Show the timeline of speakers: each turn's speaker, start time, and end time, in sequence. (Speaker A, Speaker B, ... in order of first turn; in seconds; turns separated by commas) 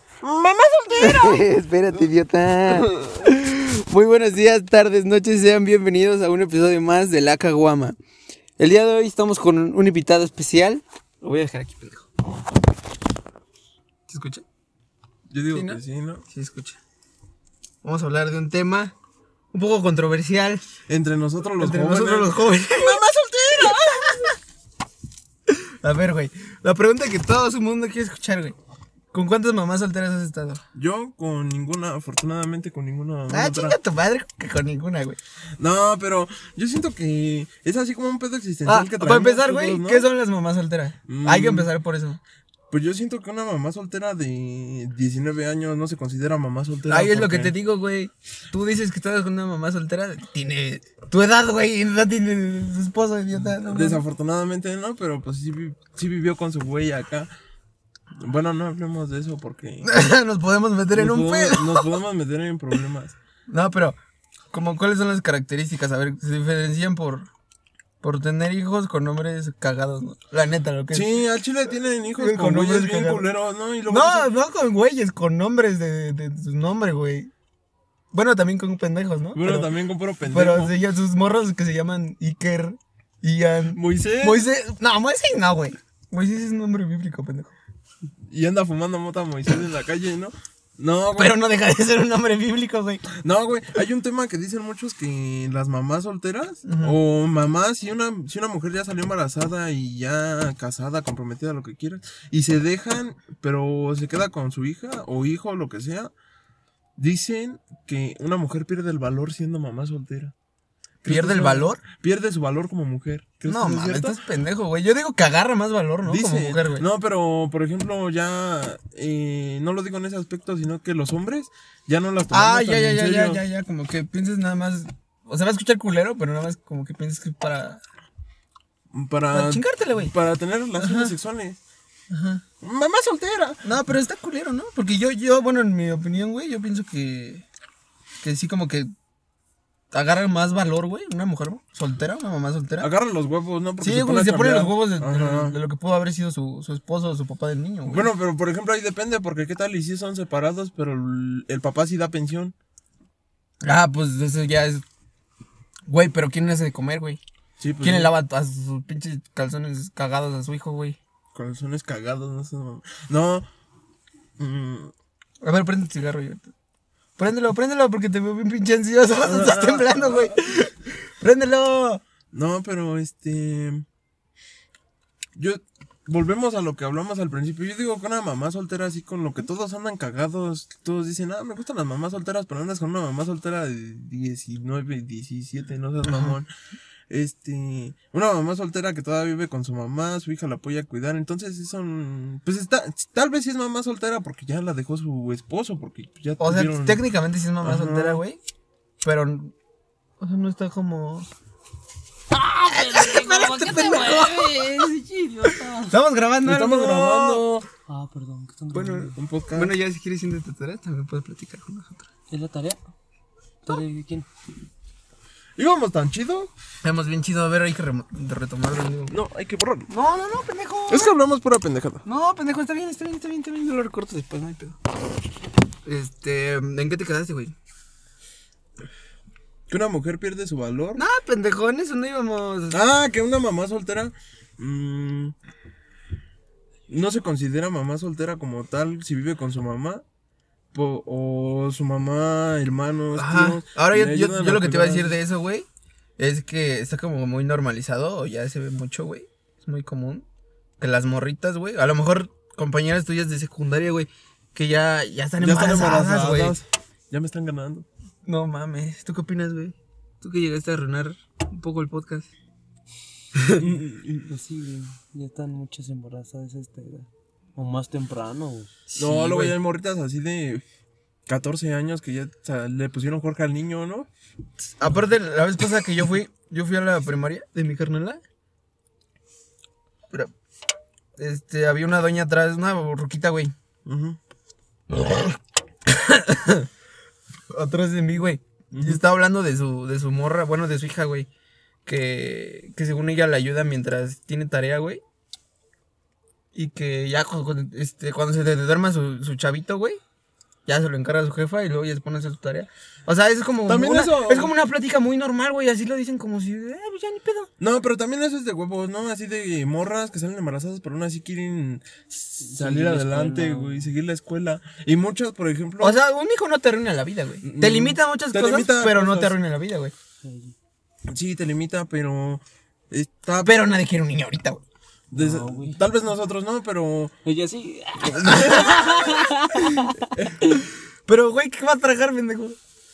Speaker A: 0.2-1.5, Speaker B: 0.9-8.0, Speaker A: 2.7-3.2, Speaker B: 8.6-12.1, Speaker B: 14.1-14.4, Speaker A: 15.3-16.2, Speaker B: 15.5-16.8, Speaker B: 17.8-18.9, Speaker B: 19.5-20.6, Speaker A: 20.9-24.3, Speaker B: 21.6-23.0, Speaker B: 23.6-24.3, Speaker B: 25.5-28.6, Speaker B: 29.1-30.6, Speaker A: 30.8-33.8, Speaker B: 33.3-35.2, Speaker A: 35.6-40.1, Speaker B: 38.6-42.2, Speaker A: 41.1-41.7, Speaker A: 42.7-47.5, Speaker B: 46.9-54.0, Speaker A: 53.4-57.3, Speaker A: 58.2-59.9, Speaker B: 59.8-61.9, Speaker A: 60.9-63.1, Speaker B: 63.5-64.0, Speaker B: 64.5-67.3, Speaker B: 68.0-71.2, Speaker A: 70.9-74.3, Speaker B: 72.2-73.3, Speaker B: 73.9-77.3, Speaker B: 78.1-79.7, Speaker A: 79.3-80.8, Speaker B: 80.3-87.5, Speaker A: 83.7-84.5, Speaker A: 88.3-91.4, Speaker B: 91.2-93.1, Speaker A: 93.1-106.1, Speaker B: 96.7-97.0, Speaker A: 107.0-110.3, Speaker A: 111.0-114.2, Speaker B: 111.0-111.8, Speaker B: 113.5-116.8, Speaker A: 116.0-123.4, Speaker B: 122.3-127.8, Speaker A: 128.9-131.6, Speaker B: 129.3-130.1, Speaker B: 130.8-131.1, Speaker B: 132.1-132.4, Speaker A: 132.6-133.6, Speaker B: 133.6-137.4, Speaker B: 138.2-138.9, Speaker B: 139.9-142.9, Speaker A: 142.8-145.6, Speaker B: 143.8-148.1, Speaker A: 147.9-152.5, Speaker B: 153.6-154.8, Speaker B: 155.9-157.2, Speaker A: 157.6-158.1, Speaker B: 157.8-161.0, Speaker A: 161.3-163.5, Speaker A: 164.4-164.9, Speaker B: 165.4-166.5, Speaker B: 167.2-172.0, Speaker A: 169.2-170.4, Speaker A: 172.3-173.9, Speaker A: 175.4-186.5, Speaker B: 186.1-186.3, Speaker A: 187.1-197.1, Speaker B: 196.4-198.4, Speaker A: 197.6-198.2, Speaker B: 199.0-199.5, Speaker B: 200.2-201.3, Speaker C: 202.3-205.9, Speaker B: 202.7-204.9, Speaker B: 205.4-207.4, Speaker A: 206.4-207.7, Speaker C: 207.9-209.2, Speaker B: 208.7-212.1, Speaker A: 209.2-209.8, Speaker C: 212.3-212.8, Speaker C: 213.6-214.3, Speaker A: 215.6-216.5, Speaker B: 216.8-219.2, Speaker A: 219.1-219.9, Speaker B: 219.9-221.2, Speaker A: 220.9-222.1, Speaker B: 222.1-224.8, Speaker B: 225.8-227.5, Speaker A: 229.7-231.0, Speaker B: 231.0-232.8, Speaker A: 232.7-235.3, Speaker A: 236.9-240.0, Speaker A: 240.7-245.2, Speaker B: 243.1-245.7, Speaker B: 246.2-250.2, Speaker B: 250.8-256.6, Speaker A: 255.4-257.9, Speaker B: 258.3-262.3, Speaker B: 263.4-263.6, Speaker A: 263.6-264.3, Speaker C: 264.3-268.7, Speaker B: 268.9-269.6, Speaker A: 269.0-270.6, Speaker A: 271.3-274.1, Speaker B: 274.8-278.2, Speaker B: 281.2-283.5, Speaker A: 283.9-284.2, Speaker B: 284.9-286.7, Speaker B: 287.5-291.3, Speaker A: 288.7-289.0, Speaker B: 291.9-295.0, Speaker B: 296.5-300.0, Speaker B: 300.7-307.5, Speaker A: 303.7-304.5, Speaker A: 307.6-316.0, Speaker C: 312.4-313.9, Speaker B: 315.8-319.9, Speaker A: 317.4-319.4, Speaker C: 320.2-320.5, Speaker A: 321.1-323.7, Speaker B: 323.4-324.6, Speaker A: 325.1-327.1, Speaker C: 325.1-325.8, Speaker C: 327.2-330.1, Speaker B: 328.2-329.9, Speaker B: 331.1-332.6